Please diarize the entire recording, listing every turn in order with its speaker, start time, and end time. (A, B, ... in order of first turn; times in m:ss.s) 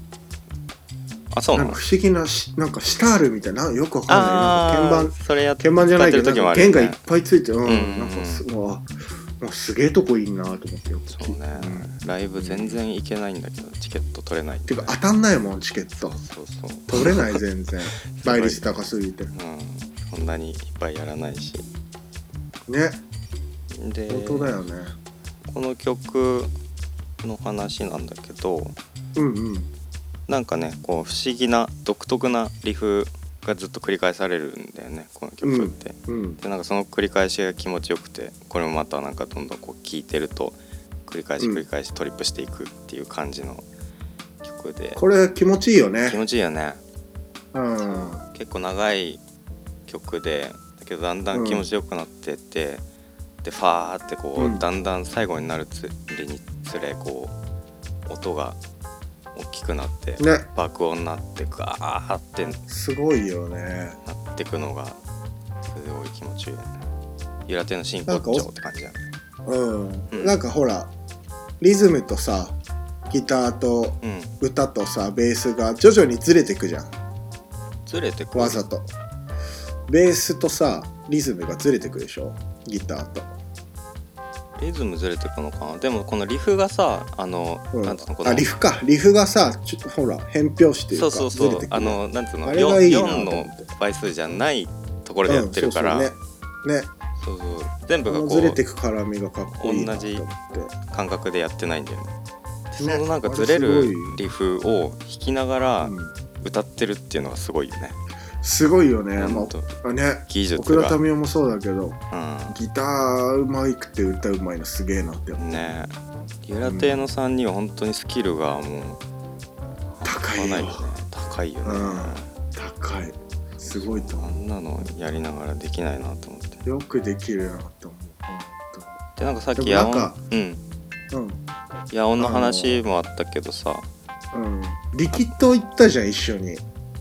0:01.3-0:01.8 A
0:01.5-0:12.8 B
0:04.1-0:07.0 A
0:07.6-0:08.5 A
0:11.1-0:15.0 A
0:14.7-0:16.2 B
0:16.0-0:17.4 A
0:16.9-0:19.3 B
0:18.1-0:21.7 A
0:22.7-0:23.0 B
0:23.7-0:24.6 A
0:24.1-0:24.9 B
0:25.5-0:26.5 A
0:27.2-0:28.8 A
0:29.2-0:29.7 B
0:30.3-0:43.6 A
0:35.4-0:36.4 B
0:41.4-0:41.6 B
0:44.4-0:45.0 A
0:45.0-0:46.2 B
0:46.0-0:46.8 A
0:47.5-0:48.2 B
0:47.8-0:49.2 A
0:49.9-0:52.8 A
0:51.3-0:51.7 B
0:53.4-0:57.4 A
0:54.4-0:54.6 B
0:58.1-0:58.6 A
0:59.4-1:02.6 A
1:00.2-1:00.5 B
1:02.7-1:04.0 B
1:04.0-1:05.0 A
1:05.6-1:06.8 A
1:07.5-1:09.0 A
1:08.1-1:08.5 B
1:09.5-1:10.9 B
1:10.1-1:10.4 A
1:11.6-1:12.6 B
1:13.1-1:16.9 B
1:14.0-1:14.3 A
1:17.9-1:18.6 A
1:18.3-1:18.9 B
1:19.9-1:23.4 B
1:24.6-1:28.5 A
1:27.7-1:33.7 B
1:30.9-1:36.2 A
1:35.3-1:36.9 B
1:37.2-1:38.6 A
1:38.1-1:40.7 B
1:39.6-1:40.2 A
1:40.9-1:42.1 A
1:42.7-1:48.0 A
1:42.8-1:44.2 B
1:45.8-1:46.1 B
1:48.4-1:55.6 B
1:49.2-1:49.7 A
1:50.3-1:51.0 A
1:52.1-1:52.6 A
1:55.4-1:55.9 A
1:56.5-1:59.0 A
1:56.6-1:57.0 B
2:00.0-2:02.3 A
2:00.0-2:00.8 B
2:01.6-2:04.4 B
2:03.6-2:06.6 A
2:06.6-2:09.0 B
2:09.2-2:10.6 A
2:09.6-2:10.2 B
2:11.1-2:11.4 B
2:11.9-2:13.9 A
2:12.2-2:12.8 B
2:14.3-2:16.6 B